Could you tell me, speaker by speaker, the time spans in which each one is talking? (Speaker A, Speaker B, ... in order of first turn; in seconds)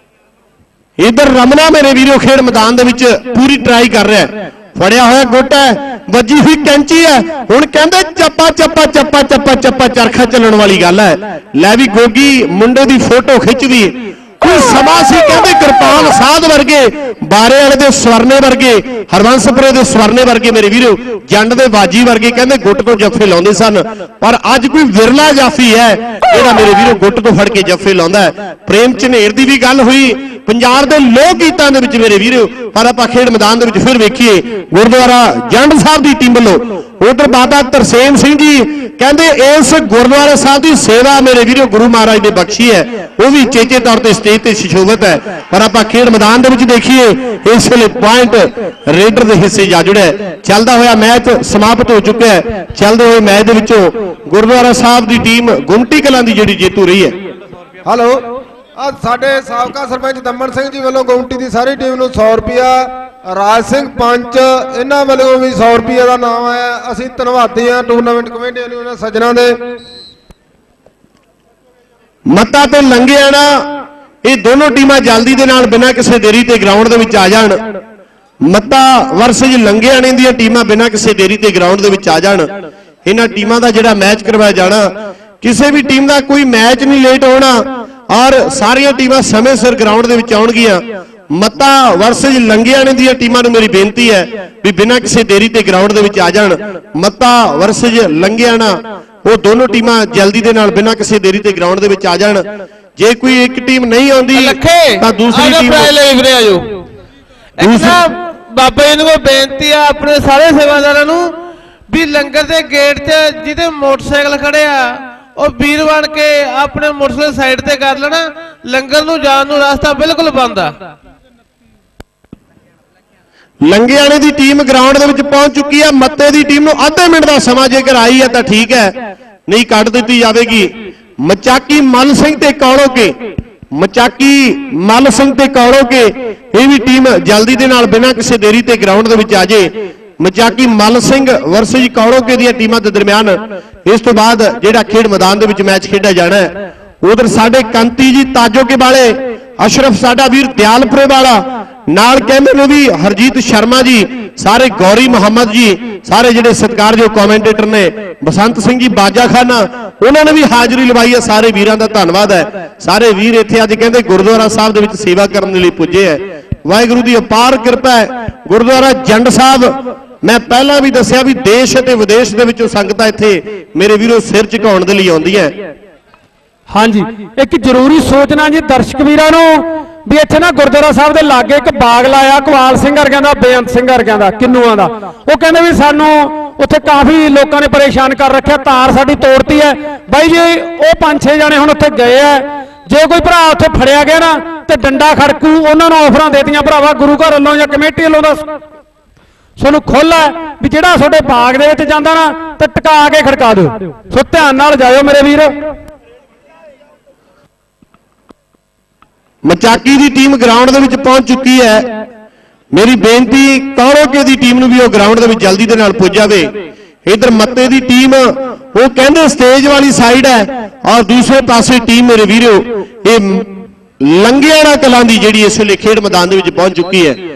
Speaker A: 1.0-57.1, 72.3-73.7, 74.2-77.6, 78.5-82.5, 83.0-84.9, 85.4-90.8, 91.3-102.4, 103.0-105.9, 107.6-108.0, 123.7-128.9, 129.5-130.7, 131.2-133.1, 133.7-175.6, 209.5-211.9, 212.7-216.5, 217.1-223.5, 224.0-227.2
Speaker B: 57.8-58.2, 58.8-69.6
Speaker C: 104.3-106.6, 107.6-111.2, 111.9-120.7
Speaker D: 176.7-198.5, 199.6-205.5